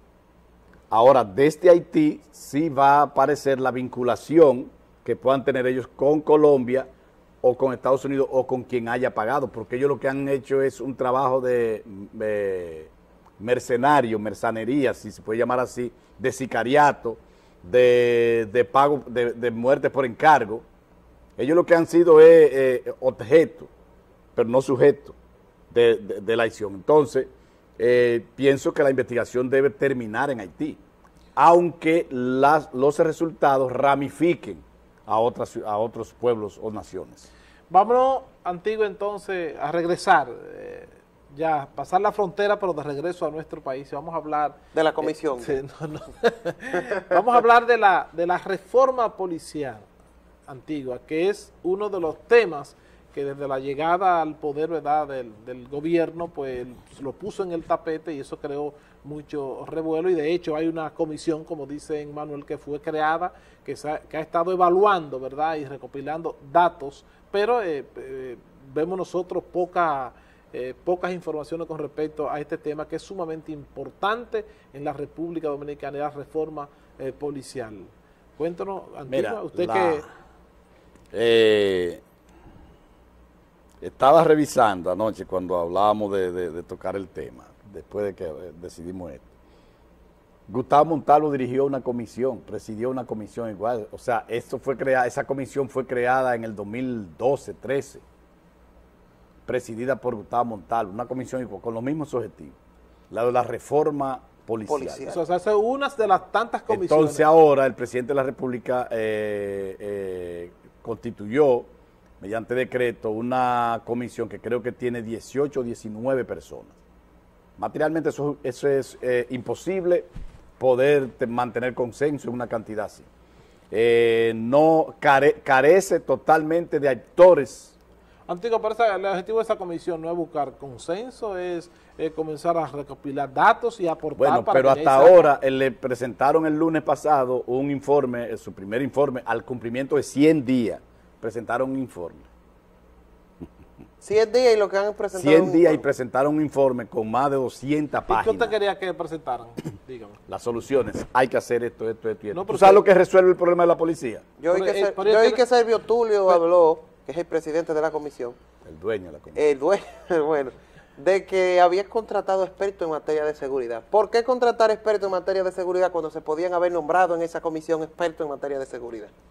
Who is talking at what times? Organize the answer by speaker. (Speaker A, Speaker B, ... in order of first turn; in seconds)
Speaker A: 0.9-6.9, 7.4-20.6, 21.4-23.7, 24.4-25.1, 25.7-30.8, 31.4-37.3, 79.1-80.0, 81.1-82.0, 83.8-89.2, 90.5-98.0, 99.5-102.5, 103.1-105.0, 106.7-111.7, 112.2-116.8, 117.6-120.1, 120.6-123.0, 123.7-127.7, 134.2-142.3, 145.1-148.5, 150.3-154.3, 158.6-159.4
Speaker B: 37.7-49.9, 50.5-80.0, 105.1-107.2, 128.3-135.3, 148.1-150.2, 152.3-152.8, 154.5-155.4
Speaker C: 44.7-45.6, 104.7-105.2, 144.0-145.8, 154.4-158.4, 159.3-169.1